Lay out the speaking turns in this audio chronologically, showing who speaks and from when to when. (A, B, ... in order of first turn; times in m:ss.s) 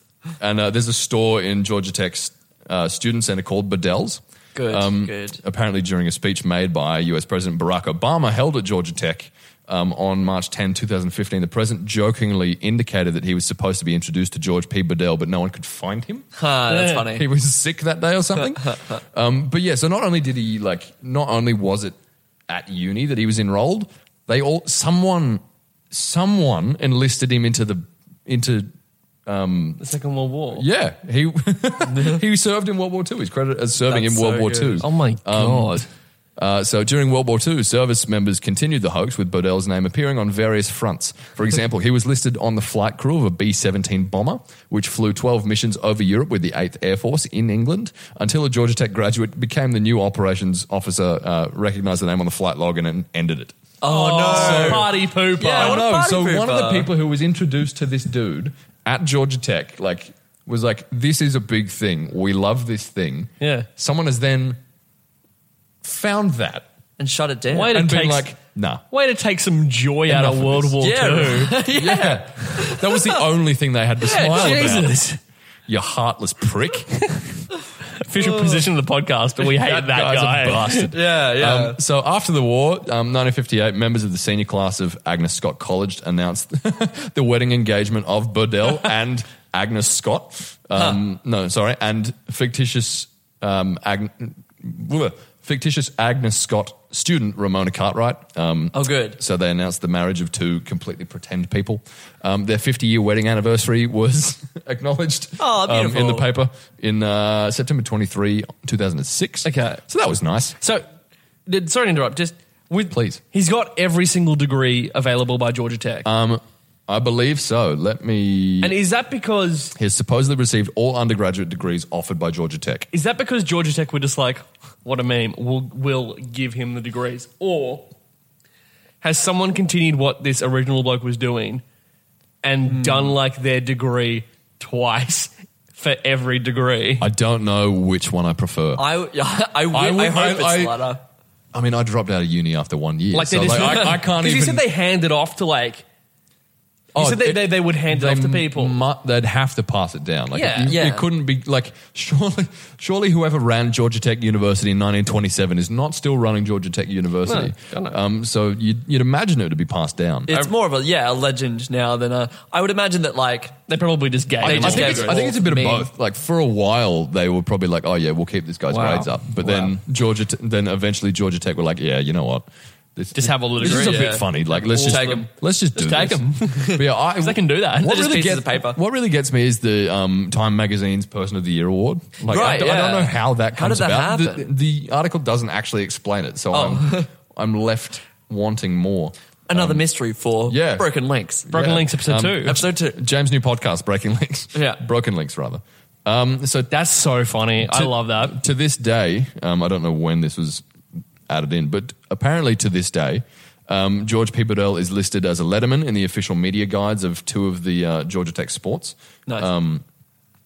0:00.4-0:16.3 A
0:04.5-0:05.4 B
0:16.4-0:17.2 B
0:16.7-0:17.0 C
0:17.1-0:22.0 A
0:22.5-0:28.7 A
0:29.2-0:29.8 A
0:29.8-0:30.6 C
0:30.5-0:35.8 A
0:31.9-0:32.2 B
0:33.9-0:34.8 B
0:34.8-0:35.9 C
0:36.4-0:53.6 A
0:53.8-0:56.9 B
0:53.8-0:55.8 C
0:54.2-1:04.6 A
1:03.4-1:03.7 C
1:05.8-1:06.7 A
1:07.0-1:07.8 B
1:07.5-1:08.3 C
1:07.7-1:08.8 A
1:08.9-1:11.6 C
1:10.1-1:10.8 A
1:10.8-1:12.9 B
1:11.7-1:15.0 A
1:14.0-1:15.2 C
1:15.7-1:17.0 A
1:17.0-1:17.2 C
1:18.0-1:20.9 C
1:18.2-1:18.6 B
1:19.4-1:50.6 A
1:20.9-1:21.8 B
1:38.7-1:39.2 B
1:45.4-1:46.3 B
1:49.4-1:49.8 C
1:51.5-1:56.1 C
1:52.9-1:53.2 A
1:56.0-1:58.8 A
1:58.6-1:59.7 C
1:59.8-2:02.9 A
2:02.9-2:07.9 C
2:09.0-2:11.6 C
2:12.4-2:17.1 C
2:12.6-2:13.2 B
2:17.0-2:18.8 A
2:18.8-2:21.0 B
2:19.7-2:20.8 A
2:21.5-2:24.6 A
2:23.1-2:25.8 C
2:26.9-2:40.5 A
2:27.0-2:28.8 C
2:30.3-2:30.8 C
2:30.7-2:31.0 B
2:37.3-2:38.0 C
2:40.3-2:43.6 B
2:43.7-2:45.2 C
2:44.4-3:09.8 A
2:44.4-2:45.9 B
2:48.7-2:49.8 C
2:53.1-2:58.4 C
2:53.6-2:54.2 B
2:54.8-2:55.2 B
2:57.8-2:58.8 B
3:02.3-3:04.5 B
3:06.5-3:07.1 B
3:09.5-3:11.5 B
3:10.5-3:10.9 A
3:11.4-3:16.7 A
3:11.5-3:12.6 C
3:12.4-3:12.9 B
3:14.5-3:14.8 B
3:16.7-3:18.4 C
3:17.6-3:20.6 A
3:21.3-3:29.8 A